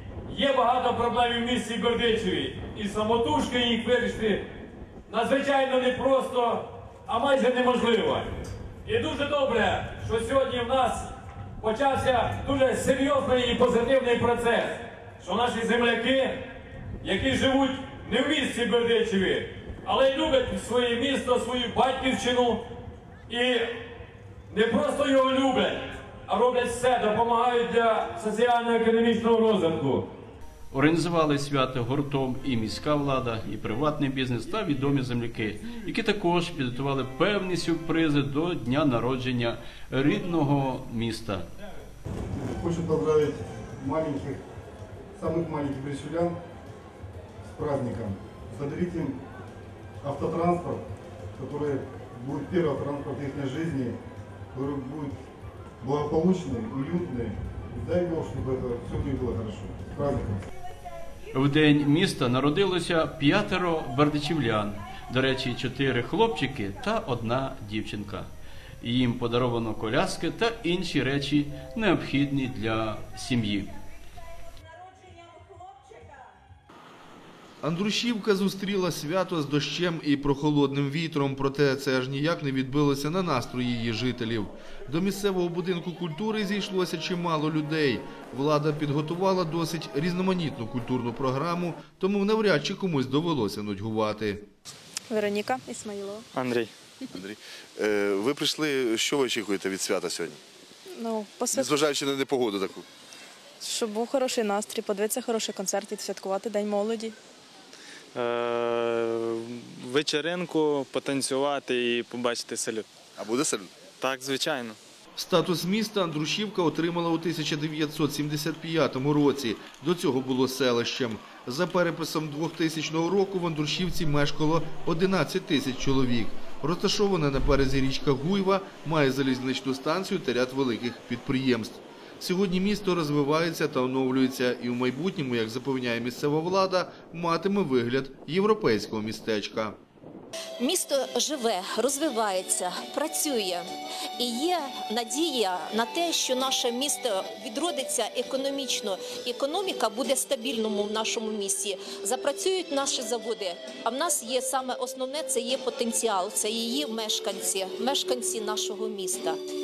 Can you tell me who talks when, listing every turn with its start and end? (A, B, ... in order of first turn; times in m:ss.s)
0:00.3-0:04.5 A
0:05.1-0:08.3 A
0:08.8-0:16.4 A
0:17.0-0:22.6 A
0:23.3-0:23.7 A
0:24.5-0:30.1 A
0:30.7-0:41.4 B
0:42.3-0:44.4 C
0:45.2-0:46.3 C
0:47.5-0:49.2 C
0:50.0-0:50.8 C
0:51.4-0:54.0 C
0:54.5-0:55.2 C
0:55.8-1:00.4 C
1:01.3-1:08.3 B
1:08.8-1:13.7 B
1:17.6-1:34.5 D
1:35.1-1:36.2 E
1:36.3-1:36.7 F
1:37.1-1:40.4 G
1:40.9-1:41.7 E
1:41.6-1:42.8 G
1:43.6-1:47.1 E
1:48.1-1:52.9 F
1:53.2-1:53.7 G
1:53.9-1:54.8 F
1:55.2-2:19.8 D
2:20.6-2:23.7 H
2:24.2-2:39.4 H